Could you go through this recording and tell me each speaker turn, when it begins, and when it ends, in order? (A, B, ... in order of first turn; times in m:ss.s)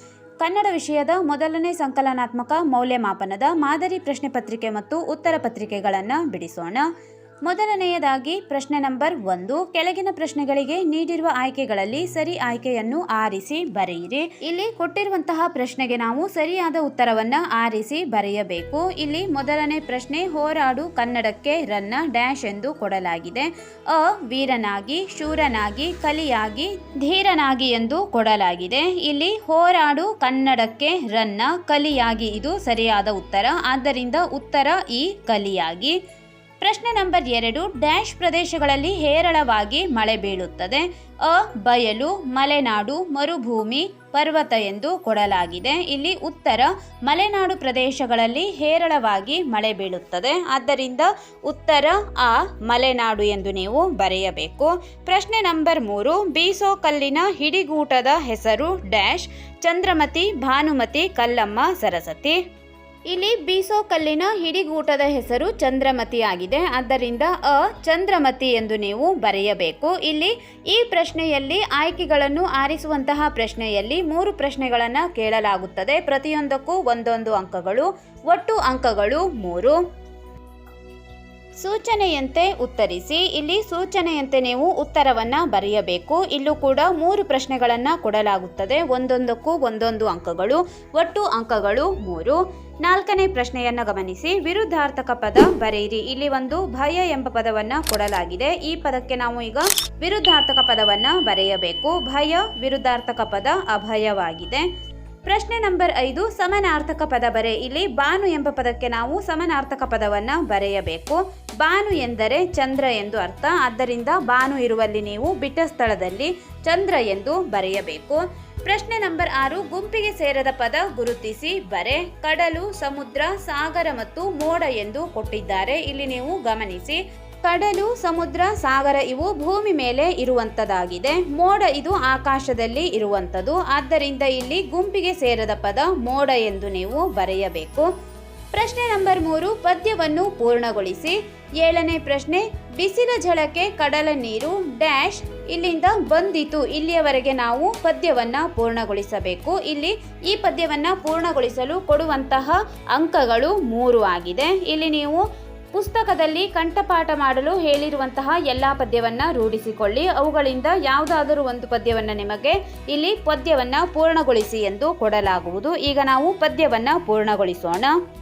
0:00.4-0:06.8 A
0:07.5-0:36.0 A
0:36.6-1:02.4 A
1:03.1-1:19.8 A
1:21.6-1:44.7 A
1:45.3-2:17.9 A
2:18.5-2:47.9 A